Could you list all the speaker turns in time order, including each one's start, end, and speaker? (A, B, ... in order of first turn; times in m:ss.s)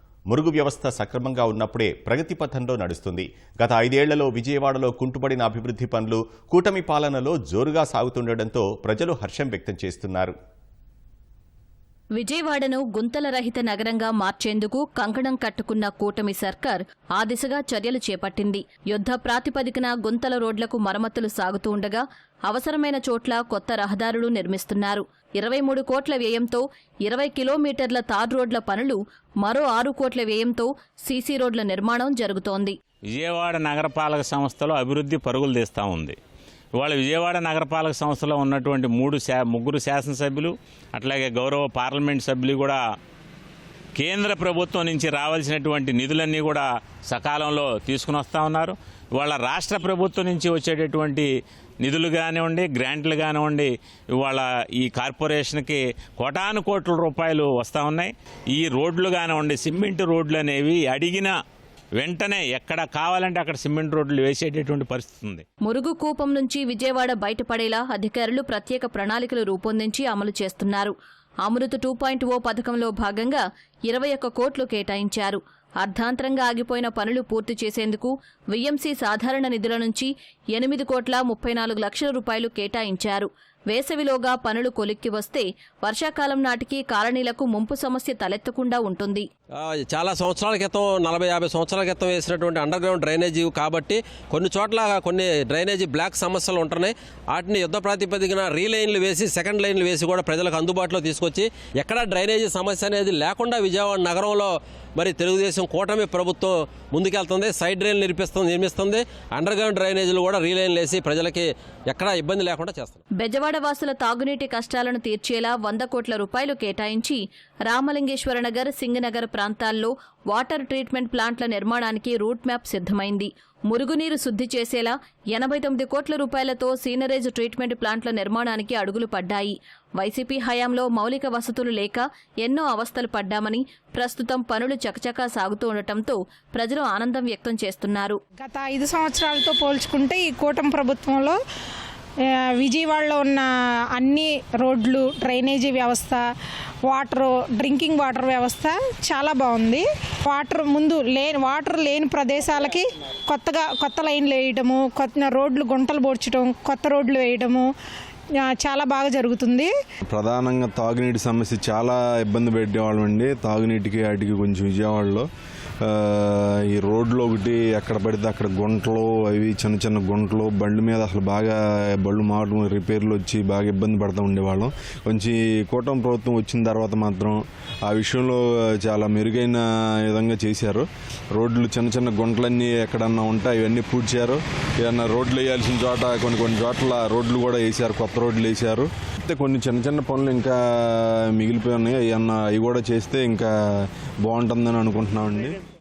0:00.3-0:10.3 A
0:12.2-0:32.7 B
0:33.1-0:36.2 C
0:36.8-0:42.8 C
0:44.0-0:51.3 C
0:51.8-1:01.4 C
1:02.0-1:05.4 C
1:05.6-1:10.9 B
1:11.4-1:29.2 B
1:29.6-1:53.0 D
1:53.2-2:18.2 B
2:18.4-2:21.4 E
2:22.6-2:26.2 E
2:26.9-2:37.7 E
2:38.4-2:39.7 E
2:40.1-2:45.3 F
2:45.8-3:15.6 F